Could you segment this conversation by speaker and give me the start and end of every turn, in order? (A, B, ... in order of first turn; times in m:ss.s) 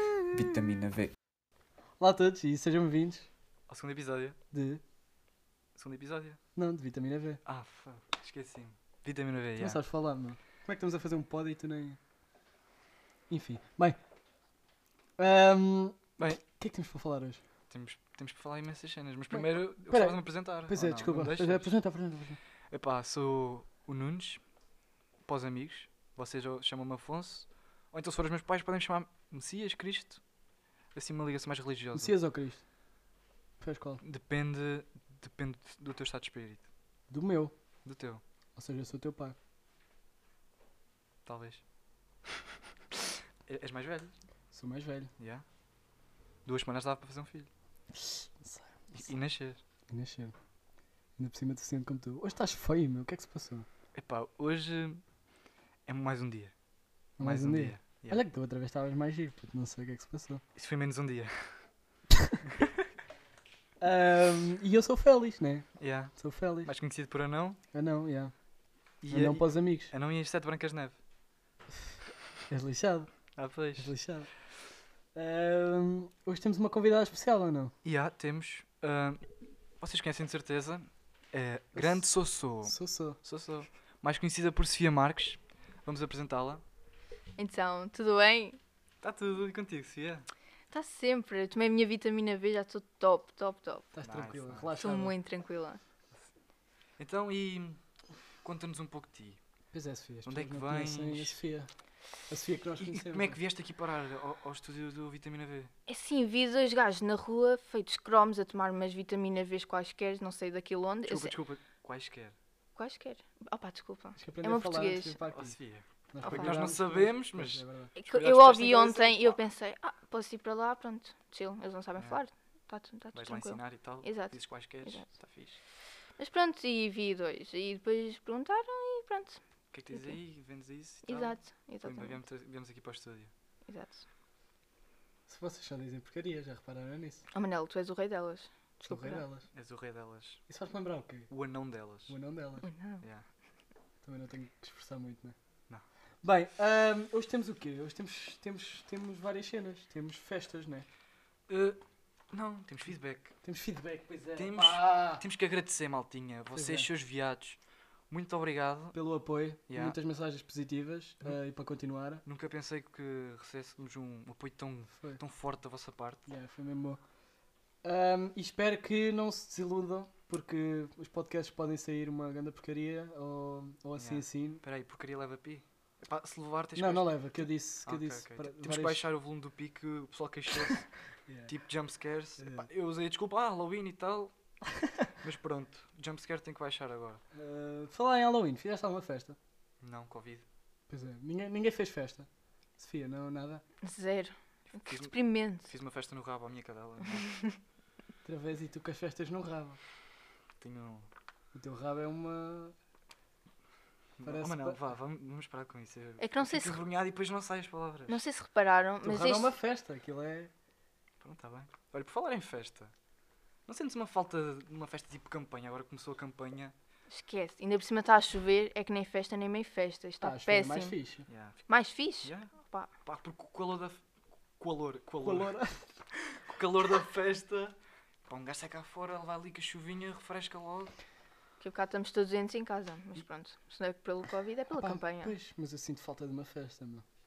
0:00.3-0:01.1 A
0:02.0-0:03.3 B
0:03.7-0:04.4 A
0:04.5-0:04.8 B
0:05.8-0:06.4 A
0:06.6-0:07.4 B
0:07.4-0:09.8 A
0:09.6-0:12.0 B
0:13.3-0:14.0 B
0:15.2-0:17.4 B
0:16.2-0:16.4 A
0:17.7-0:21.7 A
0:19.3-0:22.4 B
0:22.7-0:24.4 A
0:25.3-0:30.2 A
0:31.0-0:32.2 A
0:31.9-0:32.6 B
0:33.6-0:34.0 B
0:34.0-0:36.7 A
0:37.1-0:37.5 B
0:37.8-0:38.2 A
0:38.6-0:39.4 B
0:41.3-0:41.6 A
0:43.5-0:44.1 A
0:44.5-0:45.1 B
0:45.2-0:45.4 A
0:46.5-0:47.5 A
0:48.0-0:49.1 B
0:48.9-0:49.6 A
0:49.9-0:50.3 B
0:51.2-0:53.7 B
0:54.0-0:55.0 A
0:55.9-0:56.5 A
0:57.2-1:00.4 B
0:57.2-0:58.2 A
1:00.6-1:01.7 A
1:03.8-1:06.7 B
1:05.8-1:07.6 A
1:07.7-1:08.4 B
1:09.0-1:11.0 A
1:09.1-1:09.9 B
1:12.5-1:13.2 B
1:13.4-1:13.9 A
1:13.8-1:14.3 B
1:15.2-1:17.7 B
1:17.8-1:19.2 A
1:19.8-1:26.6 A
1:21.8-1:22.1 B
1:22.6-1:23.2 B
1:27.4-1:28.6 C
1:29.0-1:30.3 A
1:30.7-1:33.9 C
1:33.9-1:35.2 B
1:34.0-1:34.7 A
1:34.8-1:35.8 C
1:37.0-1:37.8 A
1:38.4-1:39.4 A
1:39.7-1:41.7 B
1:40.2-1:41.4 A
1:42.3-1:43.4 B
1:42.8-1:45.7 A
1:45.9-1:51.4 C
1:51.0-1:52.4 A
1:52.8-1:55.2 C
1:54.2-1:55.6 B
1:55.3-1:59.4 A
1:56.1-1:57.9 B
1:56.2-1:56.7 C
1:58.0-2:05.1 C
2:03.1-2:05.6 A
2:06.2-2:09.4 C
2:09.7-2:13.3 A
2:09.9-2:10.2 C
2:11.1-2:12.2 C
2:13.7-2:14.0 C
2:15.3-2:17.2 B
2:17.3-2:19.3 C
2:18.8-2:19.5 B
2:19.5-2:20.4 A
2:20.5-2:21.3 B
2:21.3-2:22.2 A
2:22.1-2:22.7 B
2:22.6-2:23.0 C
2:23.0-2:23.3 A
2:24.0-2:25.4 B
2:26.2-2:30.9 B
2:31.5-2:31.8 A
2:32.3-2:33.4 A
2:33.4-2:35.2 B
2:34.4-2:37.6 A
2:36.6-2:36.9 B
2:38.1-2:39.0 A
2:38.9-2:42.2 B
2:39.7-2:40.0 A
2:42.2-2:46.2 A
2:46.3-2:47.0 B
2:47.8-2:54.6 B
2:54.0-2:57.3 A
2:56.8-2:59.1 B
2:57.8-3:00.9 A
3:01.3-3:01.5 B
3:01.5-3:04.3 A
3:02.4-3:02.7 B
3:05.2-3:07.2 A
3:07.3-3:09.4 B
3:09.8-3:10.4 A
3:10.9-3:13.6 B
3:13.8-3:15.7 C
3:14.7-3:17.4 A
3:17.2-3:17.6 C
3:18.2-3:19.8 B
3:20.6-3:21.1 A
3:21.5-3:22.8 B
3:24.2-3:28.2 A
3:24.2-3:24.8 B
3:26.2-3:26.8 C
3:28.1-3:29.6 C
3:29.0-3:30.5 B
3:31.2-3:32.9 A
3:33.7-3:36.7 A
3:37.1-3:41.0 C
3:40.2-3:41.3 B
3:41.3-3:41.7 A
3:41.7-3:42.9 C
3:42.2-3:44.0 A
3:44.6-3:45.6 A
3:45.2-3:46.0 B
3:46.4-3:50.9 A
3:51.6-3:55.3 C
3:54.7-3:57.0 B